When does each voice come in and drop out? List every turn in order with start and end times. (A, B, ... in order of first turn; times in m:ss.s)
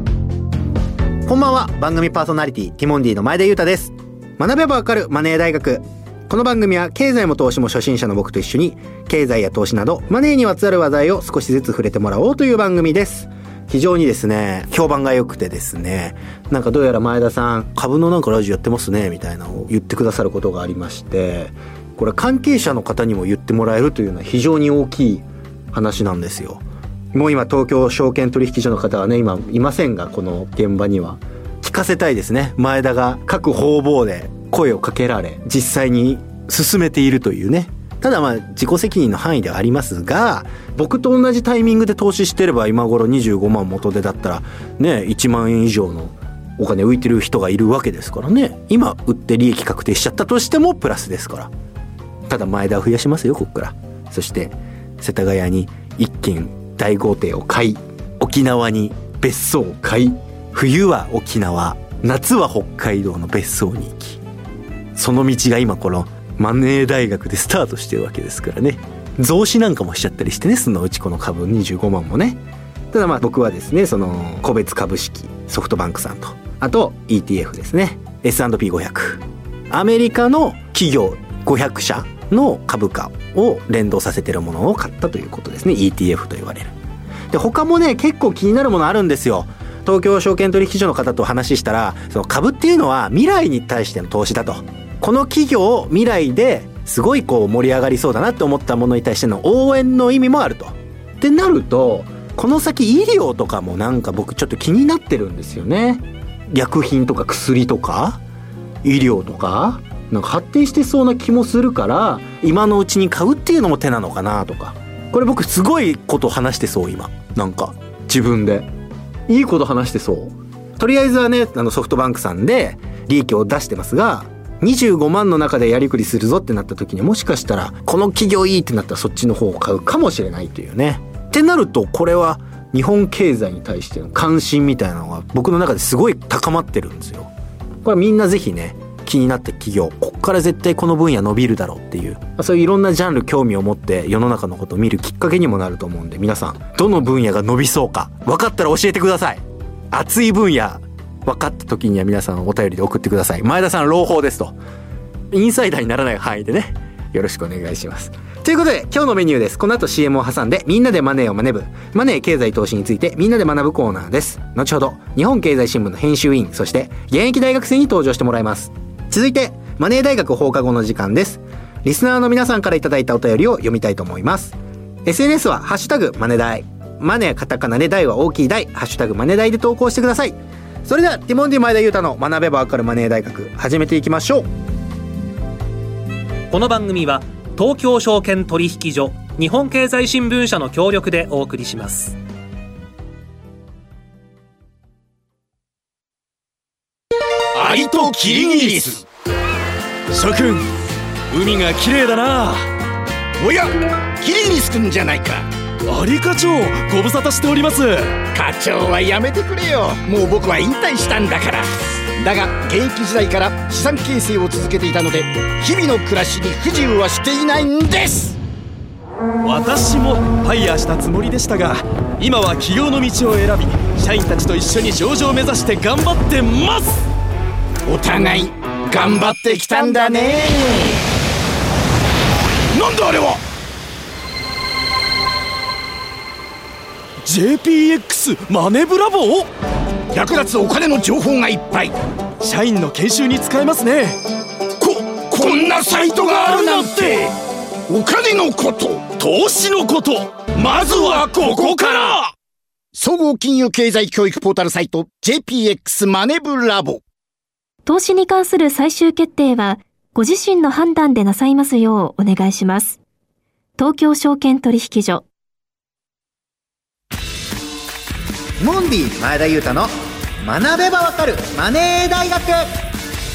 0:01.2-0:26.6 A
0:27.1-0:51.5 A
0:52.3-1:04.2 A
1:05.0-1:12.4 A
1:12.9-1:26.7 A
1:27.3-1:48.2 A
1:48.8-1:58.7 A
1:59.3-2:17.3 A
2:17.8-2:34.6 A
2:35.3-3:04.5 A
3:06.5-3:12.2 B
3:17.6-3:19.0 C
3:18.3-3:18.9 D
3:20.1-3:20.7 D
3:21.3-3:22.6 D
3:23.4-3:25.5 C
3:25.9-3:28.2 D
3:28.3-3:38.4 C
3:39.4-3:47.0 D
3:47.9-3:51.0 C
3:49.8-3:50.2 D
3:52.7-3:53.4 C
3:57.2-3:59.5 D
4:00.1-4:01.9 C
4:02.4-4:04.2 D
4:04.8-4:07.3 C
4:05.4-4:07.3 D
4:07.9-4:09.8 C
4:09.2-4:12.3 D
4:10.4-4:12.3 C
4:13.0-4:17.0 C
4:17.9-4:23.0 E
4:23.8-4:25.2 E
4:28.6-4:32.7 A